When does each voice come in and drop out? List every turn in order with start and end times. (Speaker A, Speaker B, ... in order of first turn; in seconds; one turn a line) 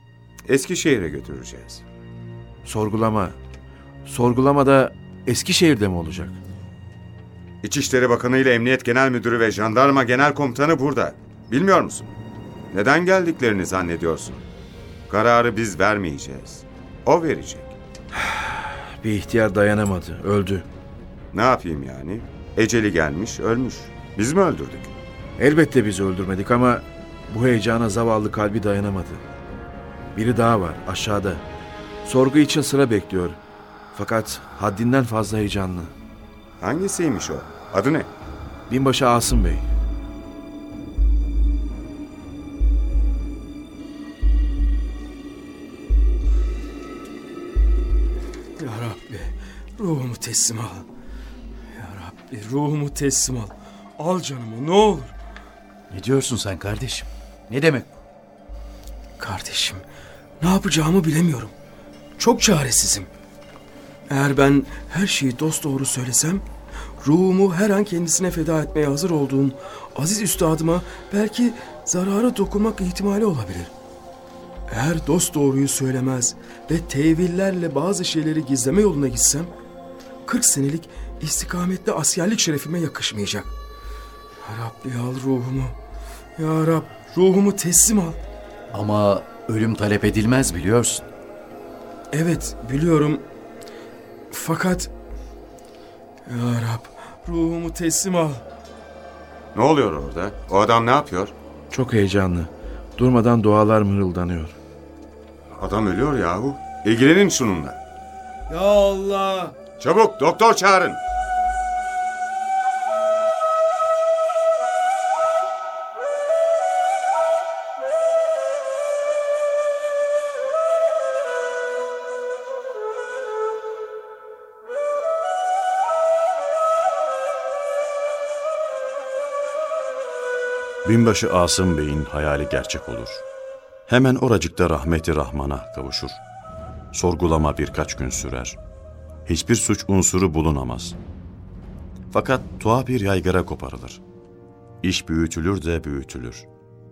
Speaker A: 0.5-1.8
Speaker B: 2.6-3.4
Speaker B: 4.1-6.4
Speaker A: 7.6-12.1
Speaker A: 12.7-14.4
Speaker A: 15.1-17.7
Speaker B: 18.1-20.7
Speaker A: 21.3-24.9
Speaker B: 25.4-29.2
Speaker B: 30.1-31.4
Speaker B: 32.0-33.4
Speaker B: 33.9-35.9
Speaker A: 36.6-38.1
Speaker B: 38.7-39.7
Speaker C: 48.6-50.9
Speaker C: 51.8-55.1
Speaker D: 55.9-58.0
Speaker C: 59.2-59.8
Speaker C: 60.4-61.5
Speaker C: 62.2-63.1
Speaker C: 64.1-66.5
Speaker C: 67.0-73.7
Speaker C: 74.7-79.5
Speaker C: 80.3-83.5
Speaker C: 84.4-85.8
Speaker C: 86.4-88.2
Speaker D: 88.7-91.1
Speaker C: 92.1-93.2
Speaker C: 94.3-94.9
Speaker C: 96.3-98.4
Speaker A: 99.5-101.3
Speaker B: 101.7-104.6
Speaker A: 105.6-107.8
Speaker A: 109.8-111.0
Speaker E: 130.8-133.2
Speaker E: 133.9-136.2
Speaker E: 136.9-138.6
Speaker E: 139.3-141.0
Speaker E: 142.1-144.0
Speaker E: 144.8-146.5